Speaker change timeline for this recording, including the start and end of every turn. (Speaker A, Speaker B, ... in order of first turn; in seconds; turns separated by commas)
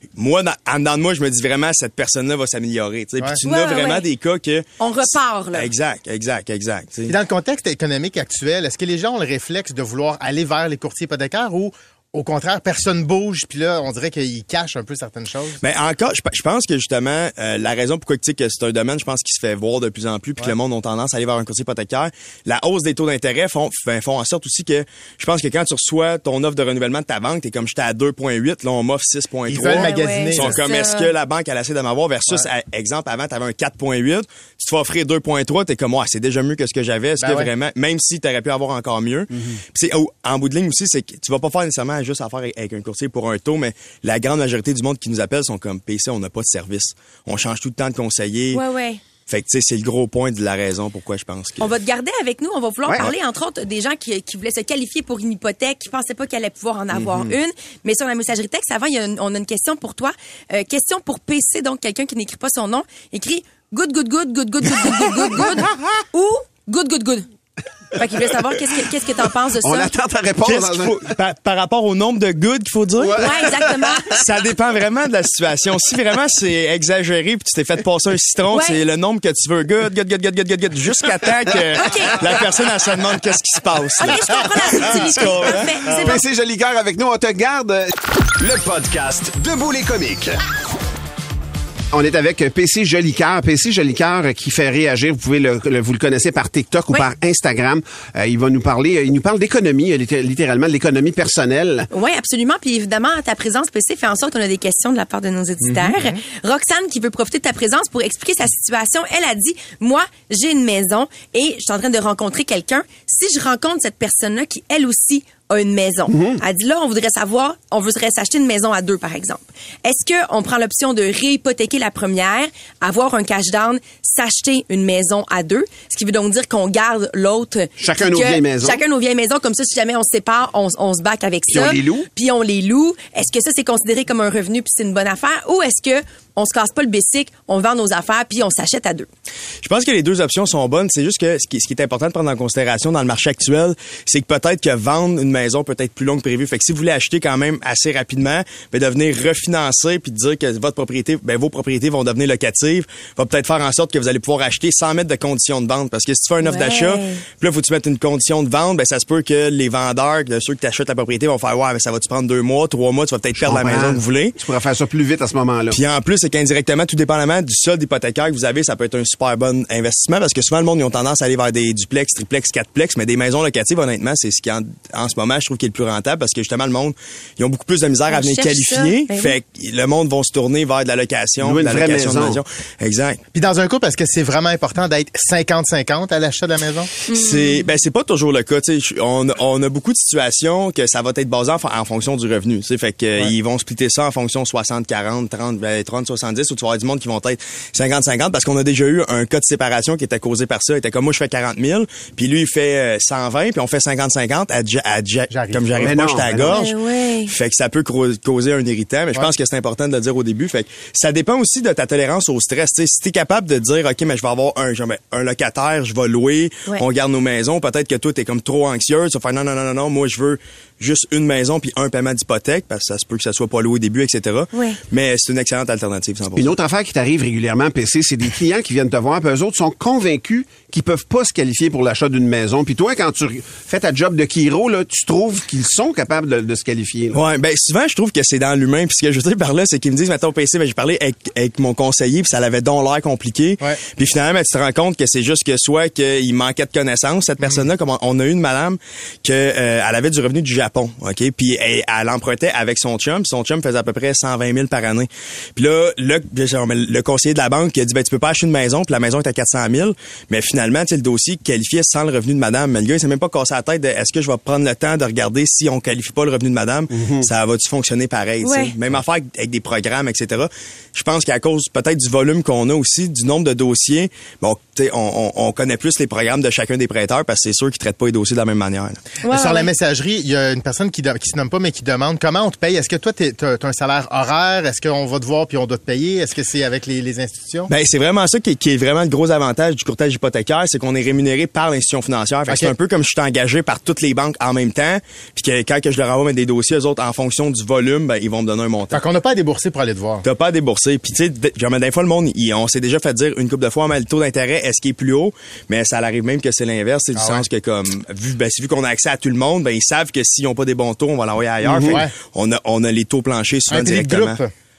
Speaker A: 0.2-7.2, Speaker B: 3.4-4.0, Speaker B: 4.8-5.7, Speaker C: 7.1-15.6, Speaker A: 15.6-48.6, Speaker C: 29.5-30.6, Speaker B: 29.7-31.1, Speaker C: 37.2-37.5, Speaker B: 48.5-49.0, Speaker A: 49.3-51.7, Speaker B: 51.6-67.3, Speaker D: 56.9-57.3, Speaker B: 68.0-69.9, Speaker D: 69.6-71.1, Speaker A: 70.4-86.0, Speaker D: 73.0-73.3, Speaker B: 73.1-74.1, Speaker B: 78.5-78.8, Speaker B: 81.8-82.2, Speaker B: 84.0-86.2, Speaker D: 85.9-87.9, Speaker E: 88.4-90.3, Speaker D: 91.9-101.9, Speaker B: 101.9-139.1, Speaker C: 105.9-106.2, Speaker D: 116.1-116.4, Speaker D: 127.8-128.8, Speaker D: 131.5-132.1, Speaker A: 139.6-164.4, Speaker B: 156.4-157.2, Speaker D: 163.3-165.8, Speaker A: 165.7-183.2, Speaker B: 178.1-179.4, Speaker D: 181.4-182.4, Speaker C: 183.3-186.9, Speaker A: 187.1-226.5, Speaker B: 187.1-187.7, Speaker C: 205.3-206.3, Speaker D: 205.8-206.7, Speaker B: 206.5-207.3, Speaker D: 226.3-237.2, Speaker A: 237.1-279.0, Speaker D: 266.9-267.3, Speaker B: 268.4-268.8, Speaker B: 279.2-279.7, Speaker C: 279.2-287.7, Speaker A: 287.7-299.0, Speaker C: 292.5-292.7, Speaker C: 298.9-300.2, Speaker A: 300.2-314.4, Speaker C: 307.2-307.4, Speaker D: 311.6-312.0, Speaker C: 311.8-312.1, Speaker C: 313.7-314.5